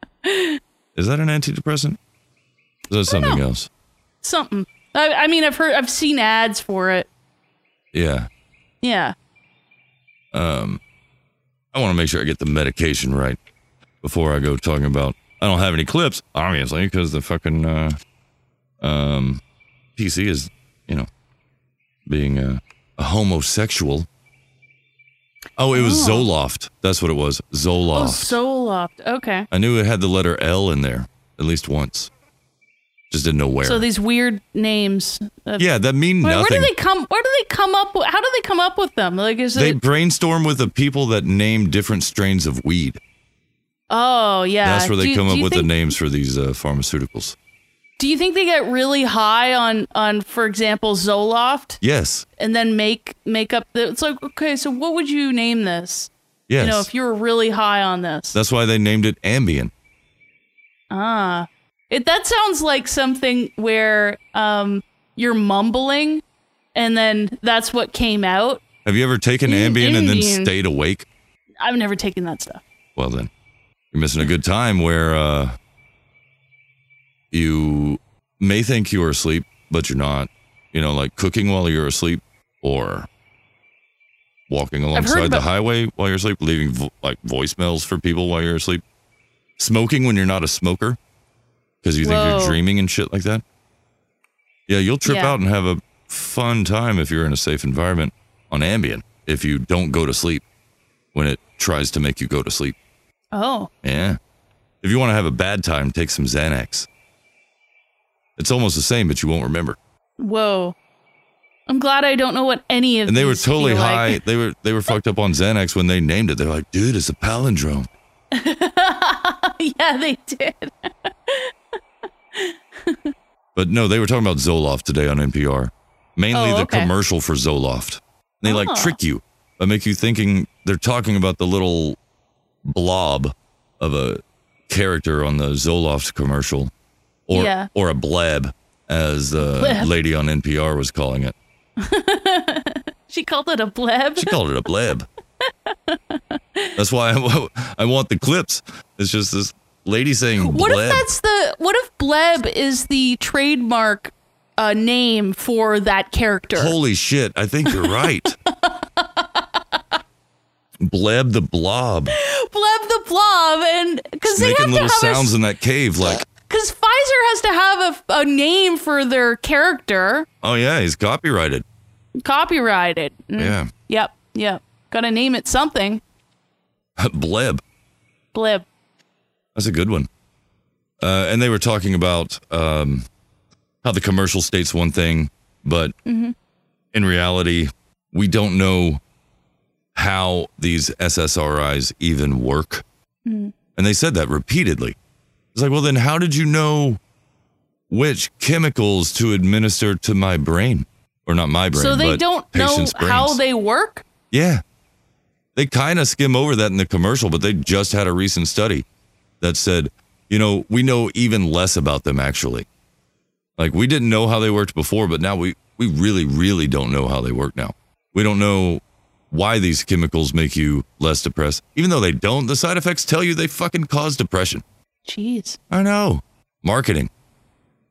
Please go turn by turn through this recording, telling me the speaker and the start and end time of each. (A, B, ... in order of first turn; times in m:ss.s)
0:00.2-0:00.6 A
0:01.0-0:02.0 B
0:02.9-0:03.7 B
0:03.1-0:03.4 A
0:04.2-0:07.1 A
0:07.9-0:08.3 B
0:08.8-0:09.1 A
0:10.3-0:10.8 B
0:11.7-0:13.4 B
0:14.0-0:18.0 B
0:18.8-0:19.4 B
0:20.0-0:21.1 B
0:22.1-0:24.0 B
0:25.6-0:28.4 B
0:25.7-0:26.3 A
0:27.9-0:29.5 A
0:29.5-0:32.1 B
0:33.1-0:33.8 B
0:33.6-0:35.7 A
0:35.6-0:36.7 B
0:36.2-0:39.8 A
0:39.5-0:43.0 B
0:43.9-0:45.7 A
0:44.6-0:47.4 B
0:48.0-0:51.8 A
0:51.8-0:52.2 B
0:52.4-0:58.4 A
0:56.5-0:56.9 B
0:58.3-0:59.7 B
1:00.9-1:06.2 A
1:06.7-1:08.6 A
1:08.8-1:11.0 B
1:09.4-1:10.5 A
1:11.6-1:12.6 A
1:13.0-1:13.3 B
1:13.9-1:15.6 B
1:17.3-1:23.1 B
1:24.5-1:28.8 B
1:24.9-1:25.4 A
1:29.6-1:31.0 B
1:31.8-1:33.4 B
1:32.0-1:32.6 A
1:34.7-1:40.4 B
1:35.0-1:35.3 A
1:41.1-1:42.7 B
1:43.3-1:43.7 A
1:43.8-1:44.2 B
1:44.8-1:46.9 B
1:48.4-1:49.8 B
1:50.2-1:50.7 A
1:51.7-1:54.2 A
1:53.0-1:57.9 B
1:58.3-2:01.5 A
2:02.3-2:03.1 A
2:03.5-2:12.0 B
2:06.3-2:06.9 A
2:08.4-2:09.0 A
2:12.6-2:16.7 B
2:17.3-2:21.3 B
2:17.3-2:17.7 A
2:19.4-2:19.9 A
2:21.8-2:24.3 A
2:24.2-2:25.1 B
2:25.6-2:26.7 A
2:26.8-2:31.0 B
2:30.4-2:36.7 A
2:36.5-2:38.4 B
2:37.7-2:38.0 A
2:38.6-2:39.4 A
2:40.8-2:42.1 B
2:42.2-2:45.3 A
2:44.3-2:46.2 B
2:46.5-2:50.2 A
2:50.4-2:51.6 B
2:52.2-2:56.0 A
2:53.4-2:53.7 B
2:57.0-2:57.6 B
2:58.3-2:58.6 A
2:59.5-3:00.1 B
3:01.0-3:03.0 B
3:03.8-3:05.9 B
3:06.0-3:06.3 A
3:06.9-3:09.0 B
3:09.9-3:12.8 B
3:13.2-3:13.5 A
3:13.8-3:15.0 B
3:15.5-3:17.0 B
3:17.9-3:23.4 B
3:21.7-3:24.0 A
3:24.3-3:24.6 B
3:25.6-3:28.8 B
3:29.4-3:32.6 B
3:33.6-3:44.6 B
3:45.0-3:45.6 A
3:45.7-3:47.1 B